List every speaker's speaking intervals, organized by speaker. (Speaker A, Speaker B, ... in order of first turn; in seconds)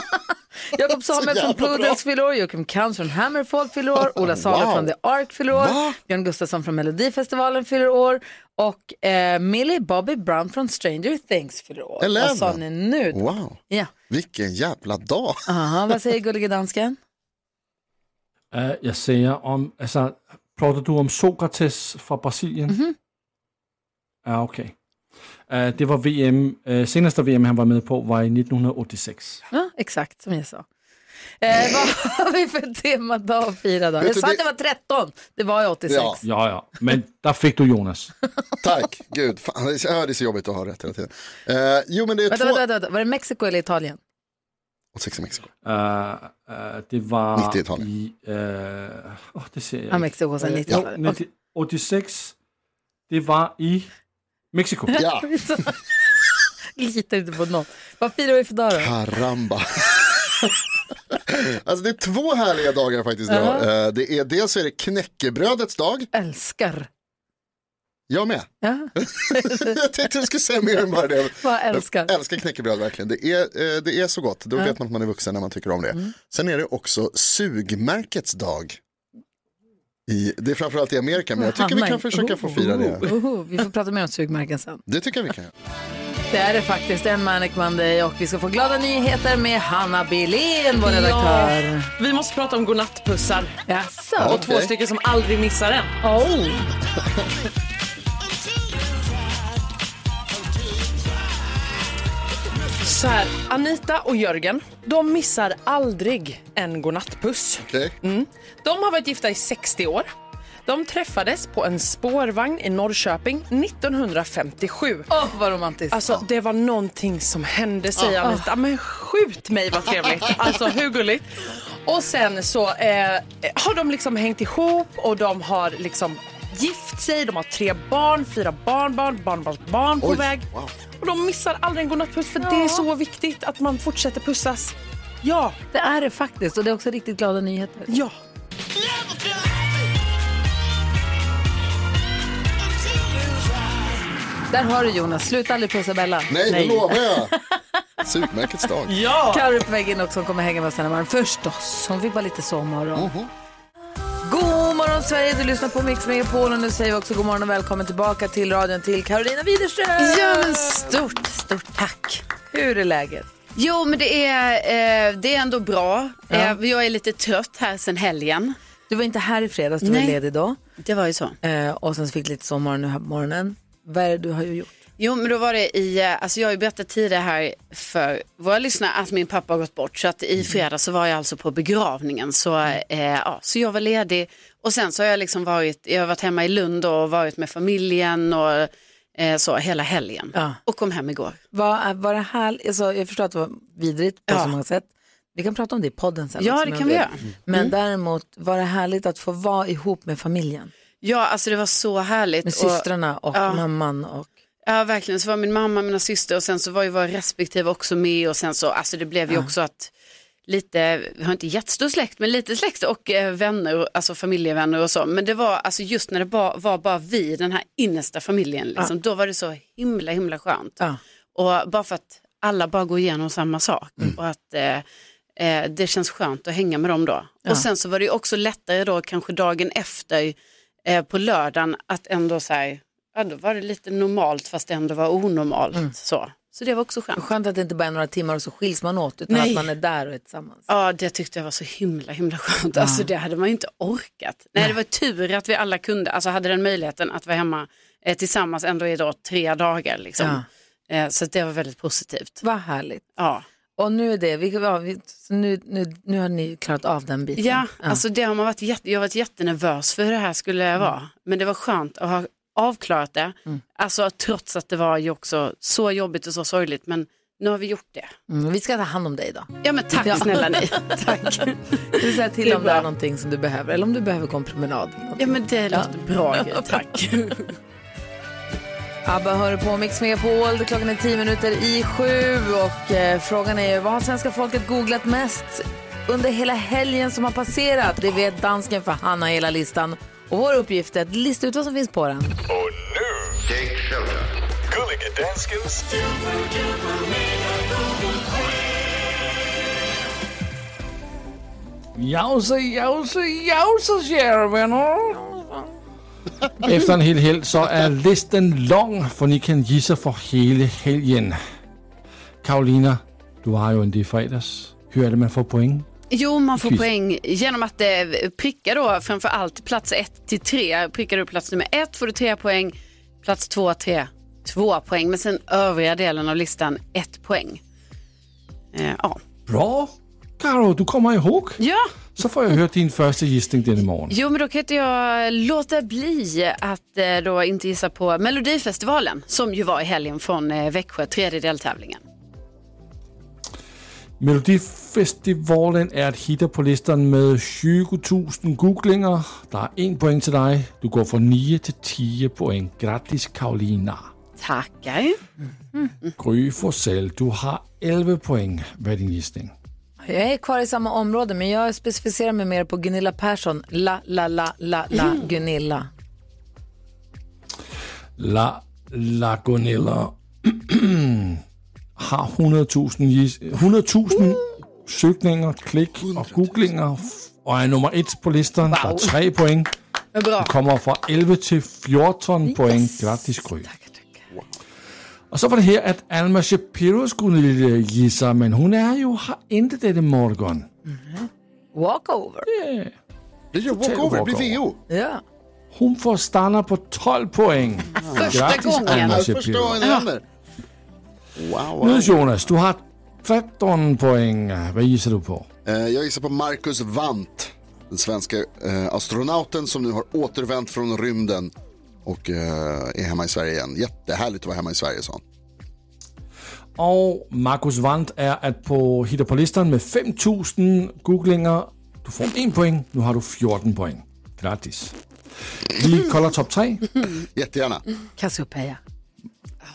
Speaker A: 0.7-13.9, 15.5-17.0, 22.7-22.9, 29.5-30.7, 31.4-36.2, 42.3-44.0, 49.9-51.2, 54.9-55.8, 56.8-58.9, 63.3-63.7, 66.1-66.9, 68.6-69.8, 71.4-72.1, 81.4-84.8, 86.3-91.9, 93.7-94.5, 96.0-96.6, 115.1-116.0, 118.2-118.5, 132.4-132.9, 135.7-137.9, 144.5-147.3, 149.3-153.1, 154.2-163.3, 166.3-166.6, 168.9-170.6, 171.4-174.7, 191.5-200.7, 202.4-204.3, 237.2-240.7, 242.8-243.1, 252.4-253.0, 253.8-258.0, 268.3-276.8, 279.1-292.4, 360.0-365.9, 378.7-379.1, 382.5-384.2, 390.9-392.5, 394.9-395.2, 428.2-428.8
Speaker B: 1.1-2.0, 4.0-4.9, 5.5-6.0, 12.0-15.5, 34.0-34.4, 35.9-36.2, 38.6-42.6, 44.9-45.5, 47.4-47.9, 54.9-55.3, 58.7-60.2, 61.3-66.1, 68.1-78.8, 80.1-83.1, 84.9-85.5, 94.2-94.7, 107.6-108.0, 130.0-130.7, 146.3-147.3, 148.0-148.9, 152.9-153.3, 376.0-376.7, 393.5-394.8, 398.0-400.2, 401.4-402.2, 405.6-411.5, 412.1-415.2, 427.2-427.8
Speaker C: 18.5-22.8, 24.2-24.7, 25.5-29.4, 36.2-38.1, 45.6-52.3, 53.1-53.9, 54.5-55.0, 302.0-305.6, 306.6-311.4, 312.4-315.9, 316.6-316.9, 329.5-331.6, 332.2-334.2, 344.2-354.1, 356.2-359.5, 368.2-371.4, 372.0-379.7, 380.4-383.7, 385.3-390.7, 392.5-392.9, 393.8-394.6, 395.7-399.8, 401.8-405.5, 416.8-424.9, 425.7-426.9
Speaker D: 90.8-93.6, 94.2-96.0, 102.8-110.1, 110.7-115.1, 115.9-130.4, 131.0-135.6, 137.9-138.2, 148.9-149.4
Speaker E: 160.0-162.2, 163.6-168.6, 169.8-170.2, 170.8-171.4, 175.0-191.4, 194.3-194.6, 196.4-197.7, 201.0-203.6, 204.7-209.9, 210.5-220.8, 221.3-224.8, 225.4-237.2, 239.3-239.7, 240.7-252.4, 253.2-253.4, 257.4-268.1, 269.6-272.9, 275.2-277.6, 316.1-327.6, 328.7-329.2, 331.6-331.9, 334.1-342.0, 354.4-355.2, 380.1-380.5, 398.1-399.2
Speaker F: 292.5-296.3